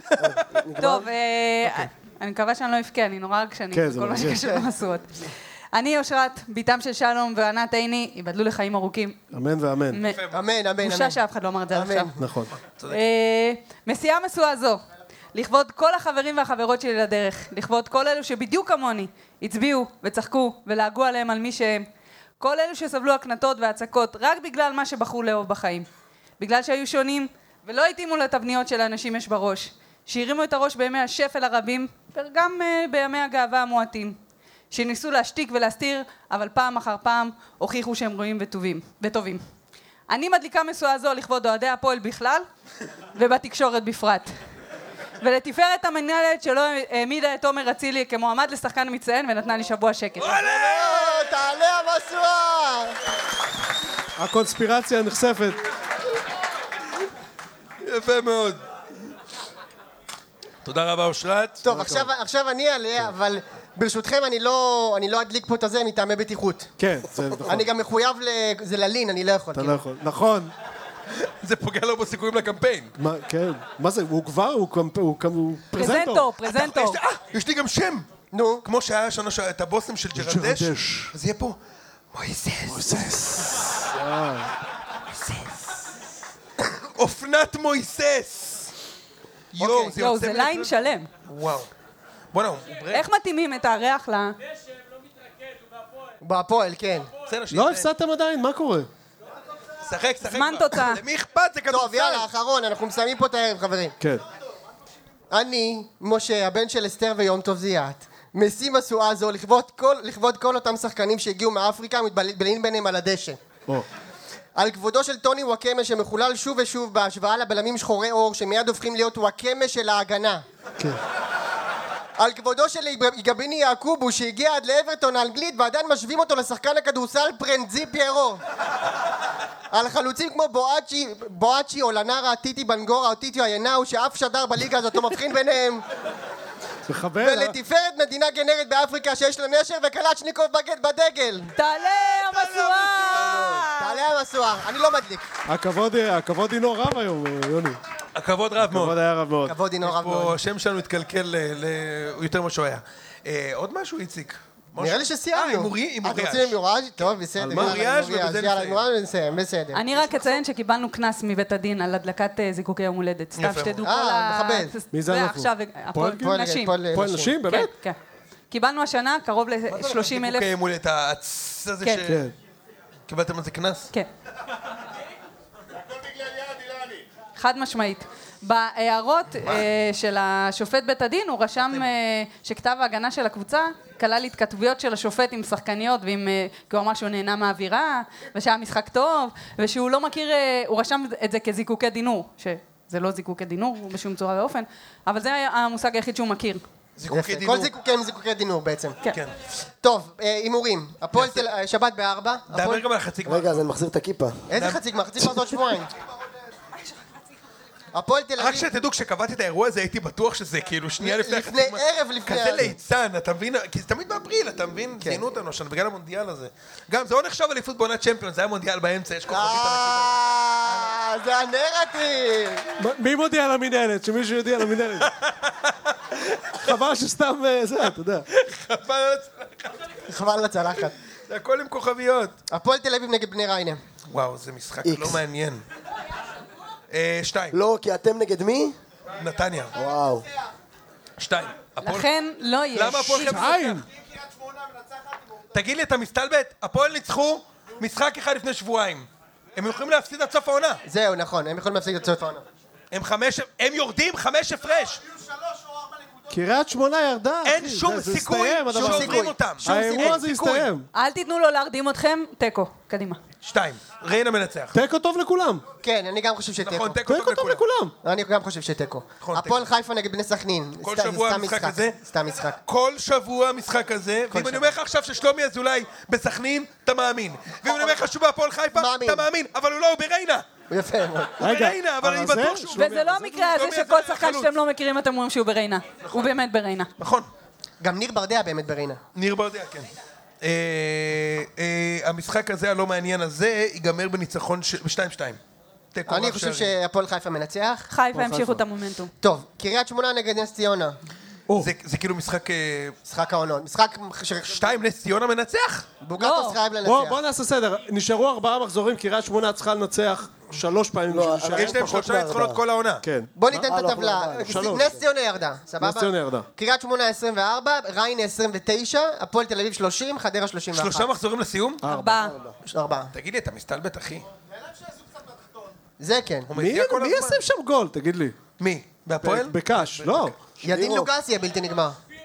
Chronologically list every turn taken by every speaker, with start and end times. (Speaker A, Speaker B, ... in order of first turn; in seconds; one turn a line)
Speaker A: 0.1-0.4
Speaker B: 0.2-1.1
Speaker C: 0.8-9.3
Speaker D: 3.7-4.6
Speaker D: 9.3-10.0
Speaker C: 9.9-10.2
Speaker A: 10.1-10.4
Speaker E: 10.3-11.2
Speaker C: 10.8-12.1
Speaker E: 11.7-12.1
Speaker D: 12.2-12.5
Speaker C: 12.9-14.8
Speaker C: 15.3-21.9
Speaker C: 22.4-25.9
Speaker C: 26.4-34.2
Speaker C: 34.7-39.4
Speaker C: 40.1-42.5
Speaker C: 43.1-44.3
Speaker C: 45.2-50.3
Speaker A: 50.2-51.2
Speaker E: 50.3-53.0
Speaker D: 54.2-55.6
Speaker A: 57.8-58.6
Speaker A: 60.6-61.6
Speaker E: 61.6-66.7
Speaker D: 61.6-62.1
Speaker D: 66.8-67.7
Speaker E: 67.5-69.8
Speaker D: 69.5-70.5
Speaker A: 71.2-72.9
Speaker D: 73.0-76.3
Speaker C: 75.7-77.0
Speaker A: 76.4-78.1
Speaker E: 78.3-78.7
Speaker A: 78.6-81.6
Speaker D: 80.2-81.1
Speaker A: 82.1-83.4
Speaker D: 82.7-84.5
Speaker A: 87.0-88.7
Speaker A: 89.5-90.7
Speaker E: 89.6-90.0
Speaker C: 89.9-91.1
Speaker A: 91.2-91.7
Speaker A: 92.3-93.0
Speaker C: 92.9-94.4
Speaker E: 96.2-97.1
Speaker A: 97.3-97.9
Speaker D: 97.5-98.9
Speaker A: 99.8-102.3
Speaker C: 100.2-101.0
Speaker E: 101.7-104.0
Speaker E: 105.3-113.4
Speaker E: 114.6-120.5
Speaker E: 122.2-128.4
Speaker E: 129.7-135.8
Speaker D: 136.9-137.6
Speaker E: 137.2-141.5
Speaker C: 141.6-144.1
Speaker A: 142.3-143.7
Speaker E: 143.8-145.2
Speaker D: 145.5-147.8
Speaker A: 148.2-149.0
Speaker D: 148.6-149.6
Speaker E: 149.5-150.4
Speaker A: 149.8-156.6
Speaker E: 154.8-160.2
Speaker D: 157.4-157.8
Speaker A: 157.5-158.9
Speaker C: 159.7-166.8
Speaker A: 163.3-163.8
Speaker E: 163.8-164.7
Speaker D: 164.9-166.4
Speaker E: 166.2-167.4
Speaker D: 166.9-167.7
Speaker C: 167.4-168.0
Speaker C: 168.5-170.5
Speaker A: 169.7-172.3
Speaker D: 172.1-172.3
Speaker A: 173.1-173.9
Speaker C: 177.4-196.6
Speaker A: 197.0-197.7
Speaker E: 197.1-199.0
Speaker E: 199.8-202.8
Speaker A: 201.1-201.5
Speaker A: 202.5-203.6
Speaker B: 203.2-204.5
Speaker E: 204.5-205.9
Speaker E: 207.9-208.7
Speaker A: 208.4-220.8
Speaker E: 211.0-212.7
Speaker E: 219.3-222.7
Speaker D: 222.8-225.1
Speaker A: 225.0-226.6
Speaker D: 226.6-228.3
Speaker A: 228.3-229.9
Speaker E: 230.1-230.9
Speaker A: 231.3-232.4
Speaker E: 232.5-233.8
Speaker A: 234.1-235.6
Speaker B: 234.8-235.2
Speaker A: 236.9-237.6
Speaker B: 237.5-238.8
Speaker A: 239.2-239.7
Speaker B: 239.7-240.3
Speaker A: 241.2-242.1
Speaker C: 241.8-243.5
Speaker A: 242.7-243.8
Speaker D: 243.2-243.8
Speaker A: 245.5-250.8
Speaker E: 250.9-252.4
Speaker A: 252.9-255.0
Speaker D: 256.3-260.9
Speaker A: 257.4-260.7
Speaker E: 258.7-260.1
Speaker C: 260.9-263.2
Speaker A: 263.4-264.8
Speaker D: 264.7-265.6
Speaker E: 265.8-267.0
Speaker A: 266.6-267.6
Speaker D: 267.1-267.9
Speaker E: 268.0-272.6
Speaker A: 269.2-269.7
Speaker A: 270.8-272.0
Speaker A: 272.7-280.4
Speaker E: 274.3-274.7
Speaker E: 277.6-278.0
Speaker E: 278.7-279.3
Speaker E: 280.7-281.4
Speaker A: 281.4-284.5
Speaker D: 281.4-283.1
Speaker C: 282.7-286.9
Speaker A: 287.0-287.3
Speaker E: 287.8-289.0
Speaker A: 289.1-289.9
Speaker A: 290.4-295.4
Speaker A: 295.9-296.7
Speaker E: 296.1-297.9
Speaker C: 297.9-299.1
Speaker D: 298.1-298.6
Speaker E: 299.2-301.0
Speaker A: 301.6-303.0
Speaker E: 303.1-304.7
Speaker A: 304.5-305.9
Speaker E: 306.0-307.2
Speaker C: 306.2-306.6
Speaker D: 306.8-311.8
Speaker B: 311.1-312.6
Speaker A: 311.6-313.1
Speaker D: 313.0-313.7
Speaker E: 313.4-321.1
Speaker B: 313.7-315.0
Speaker D: 314.5-314.9
Speaker D: 315.8-316.5
Speaker A: 320.7-321.9
Speaker D: 321.8-322.2
Speaker C: 321.9-322.4
Speaker B: 322.2-322.6
Speaker E: 322.6-323.1
Speaker A: 323.1-324.3
Speaker E: 326.0-326.5
Speaker A: 326.5-327.4
Speaker D: 326.5-328.4
Speaker A: 328.6-330.4
Speaker D: 329.2-330.4
Speaker E: 330.6-332.0
Speaker B: 330.6-331.1